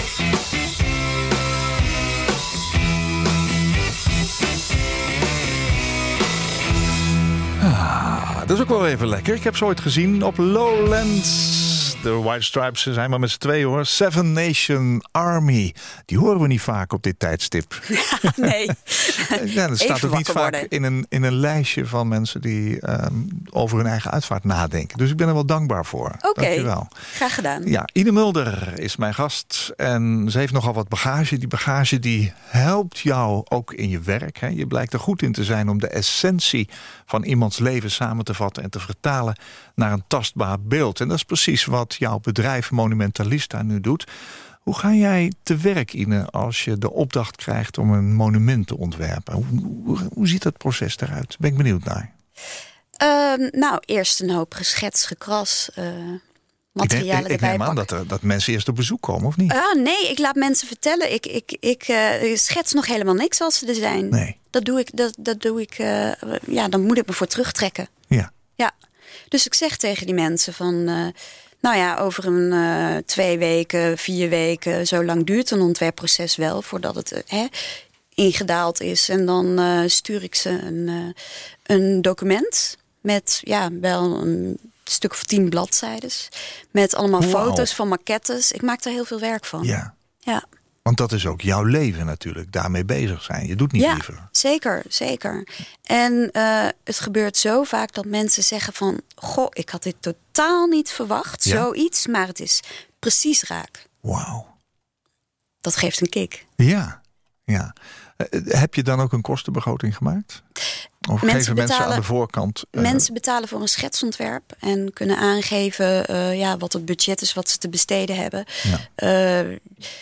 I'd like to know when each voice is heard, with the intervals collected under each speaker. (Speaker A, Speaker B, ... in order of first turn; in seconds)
Speaker A: 7.6-18.5, 19.1-26.9, 27.6-44.1, 44.6-52.1, 56.8-59.5, 64.1-64.3, 87.2-87.7, 89.6-89.9, 90.8-94.3, 104.0-104.5, 106.6-110.4, 111.0-113.1
Speaker B: 17.9-20.7, 26.2-27.7, 53.0-56.2, 56.7-57.9, 59.5-67.9, 69.3-77.5, 78.1-81.1, 81.7-89.7, 93.8-103.8, 105.6-106.5, 111.2-112.0, 112.7-119.6